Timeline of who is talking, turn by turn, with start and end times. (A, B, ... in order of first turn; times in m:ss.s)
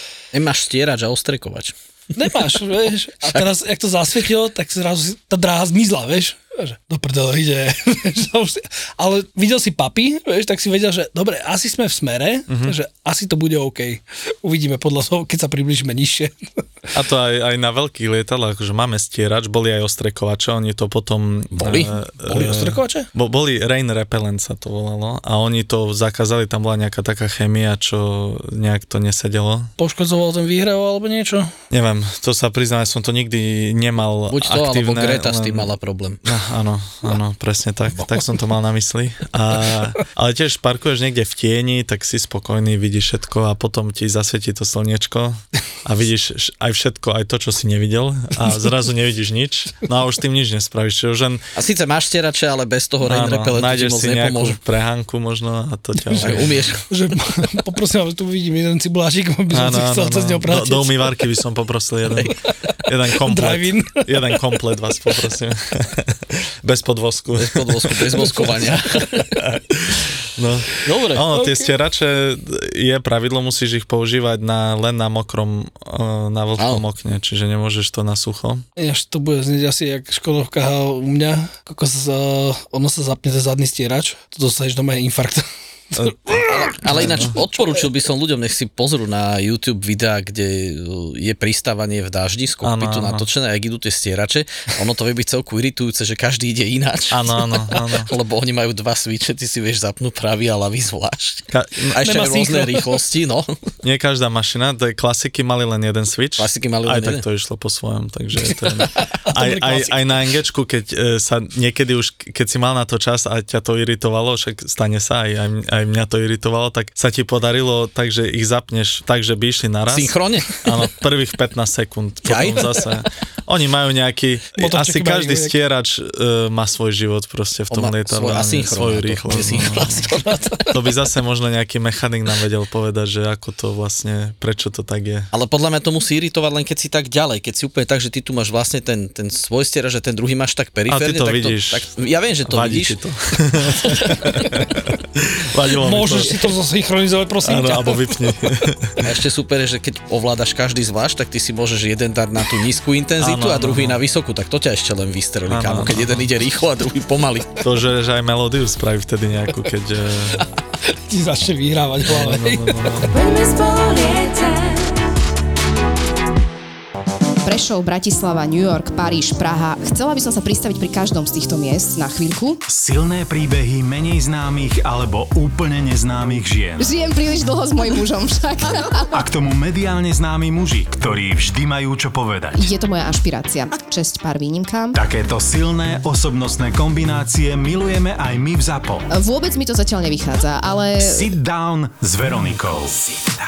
0:00.3-0:01.7 A
0:02.2-0:16.3 B
0:12.5-0:12.8 C
0:16.9-0:29.7 C
0:21.5-0:21.9 A
0:22.2-0:23.1 B
0:29.8-0:31.5 B
0:31.7-0:35.7 C
0:34.3-0:36.2 A
0:36.2-0:51.4 C
0:51.5-0:54.6 A
0:53.0-0:56.6 C
0:56.1-1:01.2 B
0:56.2-0:56.8 A
0:59.5-1:08.0 C
1:02.3-1:04.6 B
1:07.4-1:09.2 A
1:08.4-1:09.3 B
1:09.4-1:18.6 C
1:10.8-1:11.2 A
1:11.3-1:11.7 B
1:16.6-1:16.8 A
1:18.8-1:27.3 B
1:26.0-1:27.3 C
1:26.4-1:43.5 A
1:32.6-1:33.3 C
1:37.1-1:38.1 C
1:41.5-1:42.0 C
1:42.0-1:43.0 B
1:43.8-2:10.0 C
1:46.4-1:47.2 A
1:49.3-1:50.0 B
1:59.9-2:00.6 A
2:02.2-2:02.7 A
2:04.6-2:05.5 B
2:07.7-2:10.5 A
2:10.2-2:10.6 B
2:10.7-2:15.3 C
2:15.3-2:23.0 A
2:20.9-2:21.9 C
2:22.4-2:26.4 C
2:23.7-2:24.5 A
2:25.8-2:28.7 B
2:27.4-2:29.0 C
2:29.0-2:37.6 A
2:33.2-2:34.0 C
2:35.5-2:36.3 C
2:37.6-2:40.4 C
2:40.9-2:43.1 B
2:42.0-2:43.2 C
2:47.4-2:52.6 D
2:52.7-2:57.0 E
2:56.8-2:59.0 D
2:59.1-3:02.7 E
3:02.5-3:04.9 D
3:04.9-3:09.1 E
3:09.1-3:11.3 D
3:11.0-3:13.3 E